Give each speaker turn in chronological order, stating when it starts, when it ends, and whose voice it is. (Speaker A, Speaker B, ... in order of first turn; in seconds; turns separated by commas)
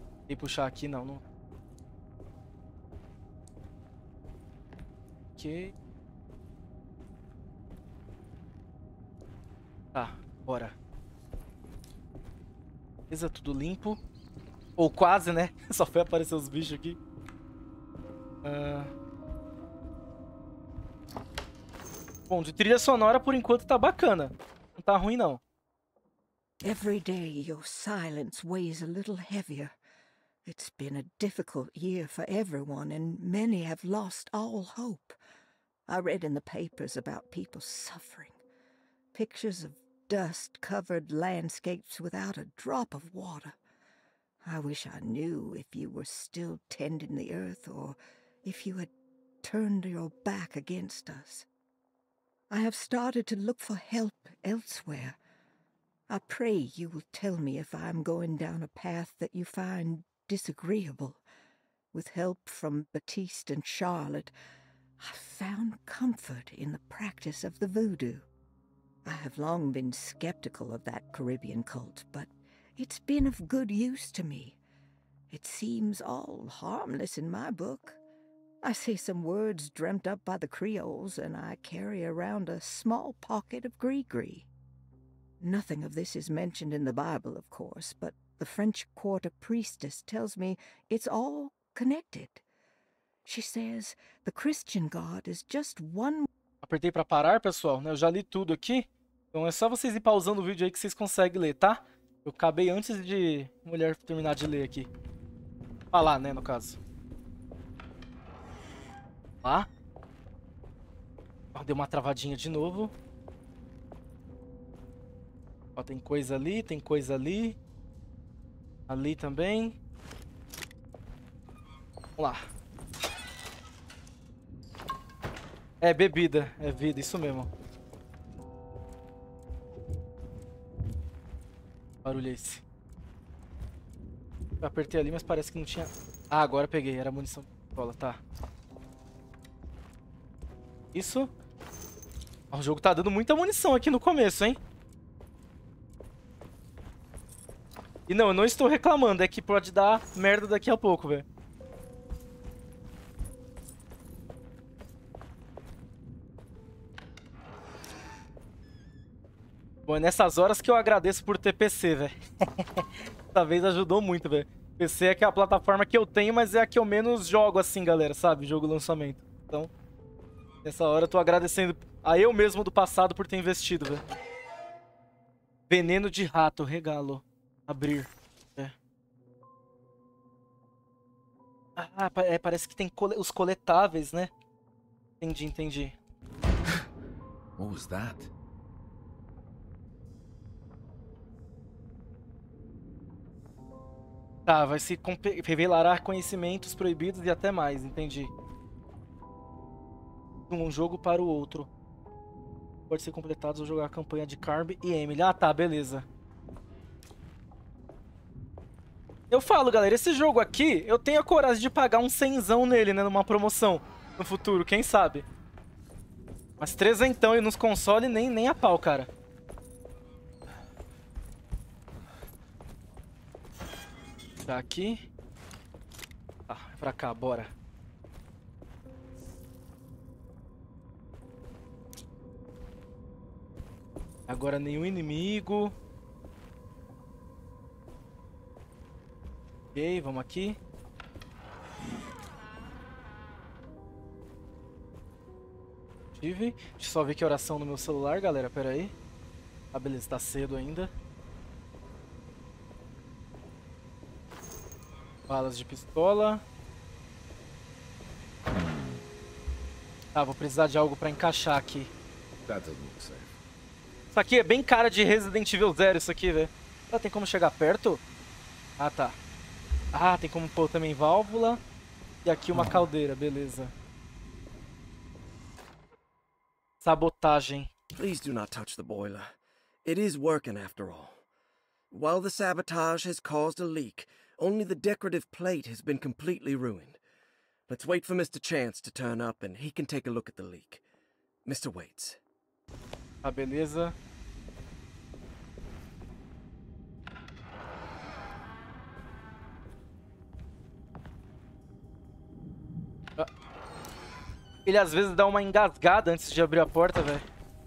Speaker A: 0.3-1.2, Speaker A: 5.3-5.7, Speaker A: 9.9-10.7, Speaker A: 13.1-14.0, Speaker A: 14.8-17.0, Speaker A: 18.4-18.9, Speaker A: 22.3-25.4, Speaker B: 26.6-29.8, Speaker B: 30.4-35.1, Speaker B: 35.9-38.4, Speaker B: 39.1-43.5, Speaker B: 44.4-48.9, Speaker B: 49.4-51.5, Speaker B: 52.5-55.2, Speaker B: 56.1-61.2, Speaker B: 61.9-64.3, Speaker B: 65.0-68.2, Speaker B: 69.0-74.6, Speaker B: 75.3-78.0, Speaker B: 78.6-84.5, Speaker B: 85.4-92.4, Speaker B: 93.2-96.3, Speaker A: 96.6-104.9, Speaker A: 105.9-106.8, Speaker A: 111.5-112.9, Speaker A: 115.8-117.6, Speaker A: 118.9-119.8, Speaker A: 122.2-122.5, Speaker A: 125.8-127.5, Speaker A: 132.0-132.6, Speaker A: 134.6-138.2, Speaker A: 140.9-141.3, Speaker A: 142.5-144.6, Speaker A: 148.1-151.2, Speaker A: 159.9-169.7, Speaker A: 170.6-174.0, Speaker A: 175.7-178.7, Speaker A: 181.8-184.3, Speaker A: 185.2-185.9, Speaker C: 187.6-188.3, Speaker A: 194.4-198.3, Speaker A: 200.5-201.7, Speaker A: 202.9-206.0, Speaker A: 209.3-215.2, Speaker A: 216.6-219.1, Speaker A: 224.4-225.0, Speaker A: 226.5-227.5, Speaker A: 234.3-235.7, Speaker A: 239.7-240.6, Speaker A: 246.1-248.9, Speaker A: 249.7-250.9, Speaker A: 255.3-256.4, Speaker C: 258.5-259.0, Speaker A: 260.1-261.9, Speaker C: 262.4-263.4, Speaker A: 264.1-268.0, Speaker A: 268.8-269.2, Speaker A: 269.9-271.6, Speaker A: 272.2-273.7, Speaker C: 272.5-272.9, Speaker A: 276.8-277.7, Speaker D: 277.9-281.2, Speaker D: 281.9-287.0, Speaker D: 287.7-290.8, Speaker D: 291.4-292.2, Speaker A: 293.2-293.9, Speaker A: 304.6-307.2